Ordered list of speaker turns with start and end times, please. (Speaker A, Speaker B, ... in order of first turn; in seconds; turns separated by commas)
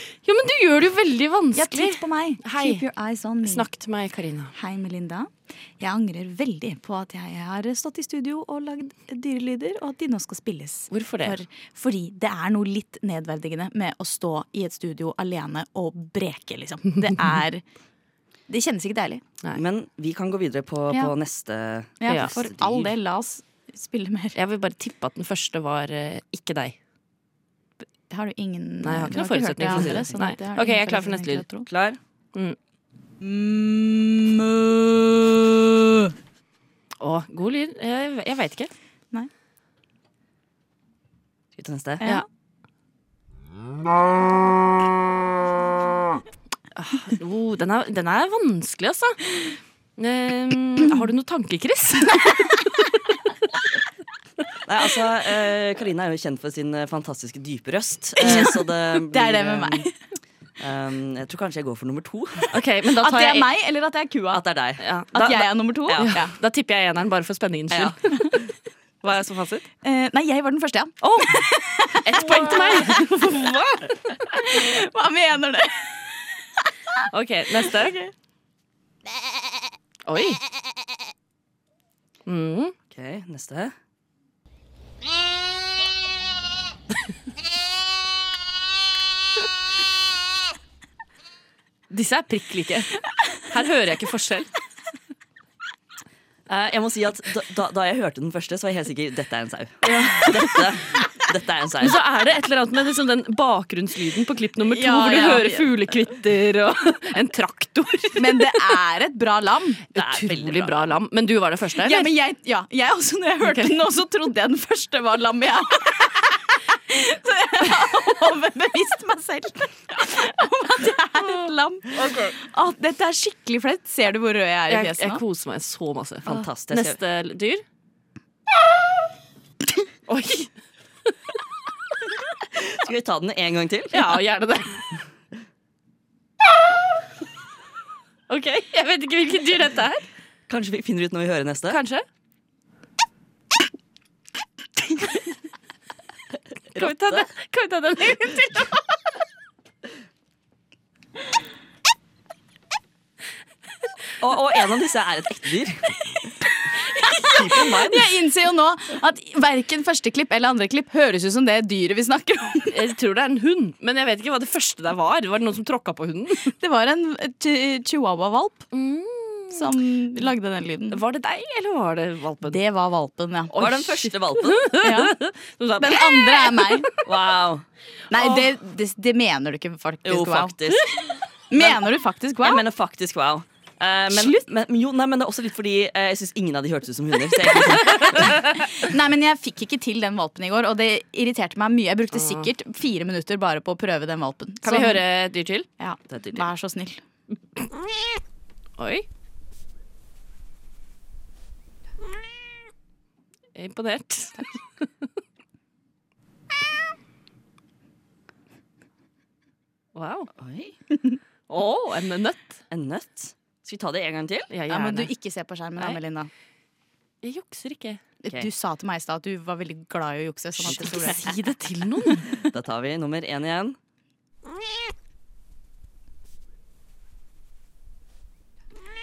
Speaker A: 0.2-2.8, Speaker B: 1.5-3.7, Speaker A: 3.4-4.5, Speaker B: 4.5-17.6, Speaker A: 10.9-11.4, Speaker B: 18.5-19.2, Speaker C: 19.5-22.9, Speaker B: 22.0-24.4, Speaker A: 22.1-22.3, Speaker A: 24.3-26.7, Speaker B: 28.1-31.7, Speaker A: 28.8-31.4, Speaker C: 29.7-30.1, Speaker C: 31.7-32.0, Speaker B: 33.2-36.1, Speaker A: 37.0-38.7, Speaker C: 41.5-42.0, Speaker A: 46.8-49.3, Speaker A: 50.0-52.7, Speaker C: 54.6-59.9, Speaker B: 58.2-59.9, Speaker C: 60.6-62.5, Speaker A: 62.5-63.5, Speaker B: 63.0-64.4, Speaker C: 64.3-64.8, Speaker A: 64.8-68.0, Speaker B: 65.1-66.3, Speaker C: 67.7-68.0, Speaker A: 69.0-69.6, Speaker B: 69.8-76.2, Speaker A: 71.0-71.4, Speaker A: 72.0-73.8, Speaker A: 77.1-78.0, Speaker B: 77.6-78.1, Speaker A: 80.1-80.4, Speaker A: 82.2-82.7, Speaker C: 82.9-83.7, Speaker A: 91.9-94.5, Speaker C: 96.5-102.0, Speaker A: 99.8-100.7, Speaker A: 101.8-108.5, Speaker B: 104.7-105.9, Speaker B: 108.1-109.8, Speaker C: 109.9-111.0, Speaker A: 109.9-112.1, Speaker B: 111.8-125.2, Speaker A: 113.4-113.8, Speaker A: 122.0-122.3, Speaker A: 124.7-127.6, Speaker C: 126.2-127.0, Speaker A: 130.1-130.5, Speaker C: 132.6-134.1, Speaker A: 133.9-134.8, Speaker A: 138.3-140.0, Speaker C: 140.5-141.8, Speaker A: 141.7-142.0, Speaker A: 146.7-148.8, Speaker C: 146.7-147.3, Speaker C: 154.2-155.9, Speaker B: 157.0-162.8, Speaker C: 157.2-158.1, Speaker A: 162.7-166.5, Speaker B: 166.6-168.6, Speaker A: 168.7-169.7, Speaker B: 169.5-171.0, Speaker A: 170.9-172.6, Speaker B: 172.4-173.5, Speaker C: 173.5-174.8, Speaker A: 173.5-177.0, Speaker B: 174.8-175.2, Speaker B: 175.8-176.9, Speaker C: 177.0-177.7, Speaker B: 178.1-180.5, Speaker A: 178.2-178.4, Speaker C: 180.0-181.0, Speaker B: 181.5-182.6, Speaker C: 181.5-181.8, Speaker C: 182.4-188.4, Speaker B: 184.1-184.4, Speaker A: 187.9-188.3, Speaker B: 188.5-195.0, Speaker A: 192.1-192.5, Speaker A: 194.6-195.7, Speaker B: 195.8-197.0, Speaker C: 196.1-196.4, Speaker A: 198.8-199.1, Speaker A: 203.5-204.5, Speaker A: 209.9-210.3, Speaker C: 210.3-210.8, Speaker A: 211.5-212.6, Speaker C: 212.7-214.5, Speaker A: 214.5-215.1, Speaker B: 214.7-216.3, Speaker A: 217.2-218.0, Speaker B: 218.2-221.2, Speaker A: 220.6-222.4, Speaker C: 220.7-221.2, Speaker C: 222.4-223.8